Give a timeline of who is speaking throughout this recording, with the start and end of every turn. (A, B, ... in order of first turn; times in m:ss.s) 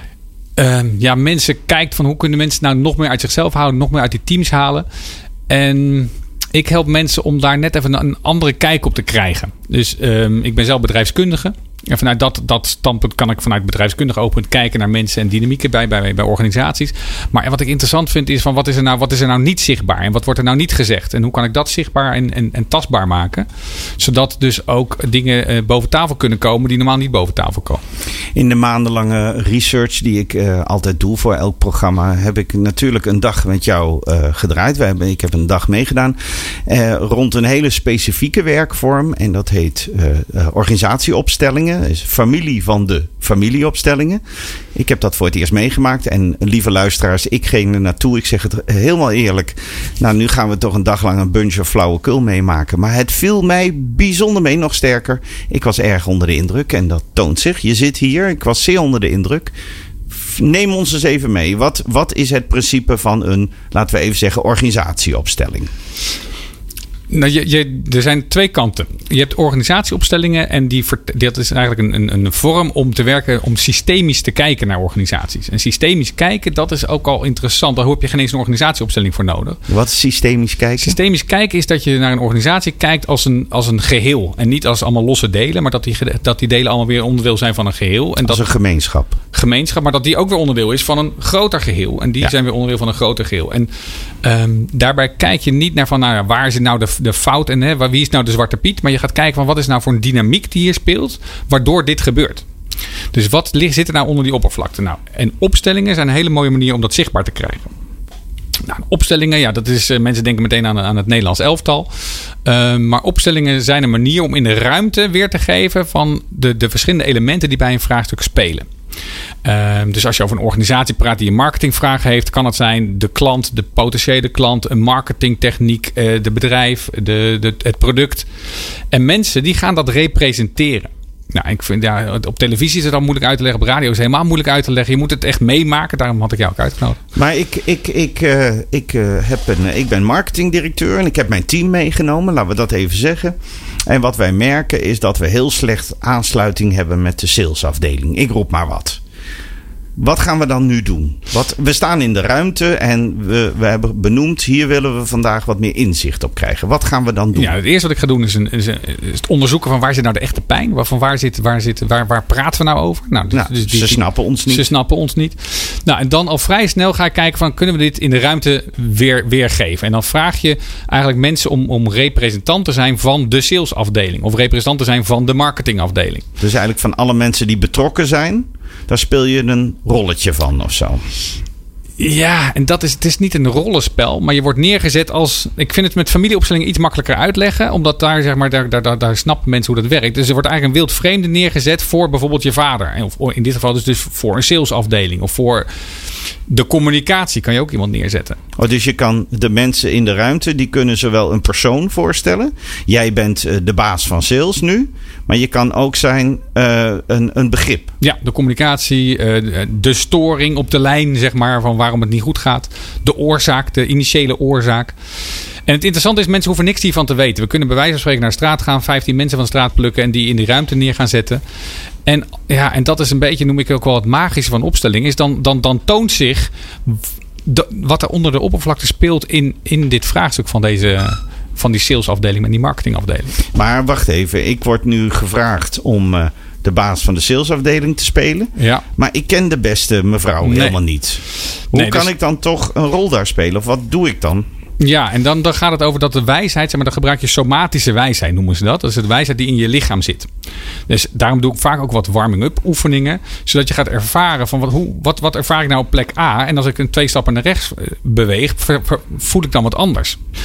0:00.6-0:04.8 A
0:05.5-0:23.5 A
0:24.0-0:27.8 A
0:28.3-0:44.2 B
0:44.7-0:59.5 B
1:00.1-1:05.7 B
1:07.1-1:19.6 A
1:19.7-1:21.0 B
1:20.8-1:28.5 A
1:28.2-1:29.1 B
1:29.3-1:33.7 A
1:34.2-1:42.4 A
1:43.1-1:47.7 A
1:48.6-1:58.7 A
1:59.4-2:08.3 A
2:08.9-2:17.0 A
2:17.1-2:29.0 B
2:30.0-2:37.5 B
2:37.3-2:56.2 A
2:43.3-2:44.6 B
2:56.4-3:01.0 B
3:02.0-3:15.7 A
3:16.5-3:18.4 A
3:18.6-3:27.9 B
3:28.0-3:35.0 A
3:35.6-3:41.4 A
3:42.0-3:53.4 A
3:53.5-4:04.4 B
3:58.6-3:58.8 A
4:00.4-4:00.8 A
4:01.7-4:02.1 A
4:04.8-4:10.3 A
4:10.9-4:20.2 A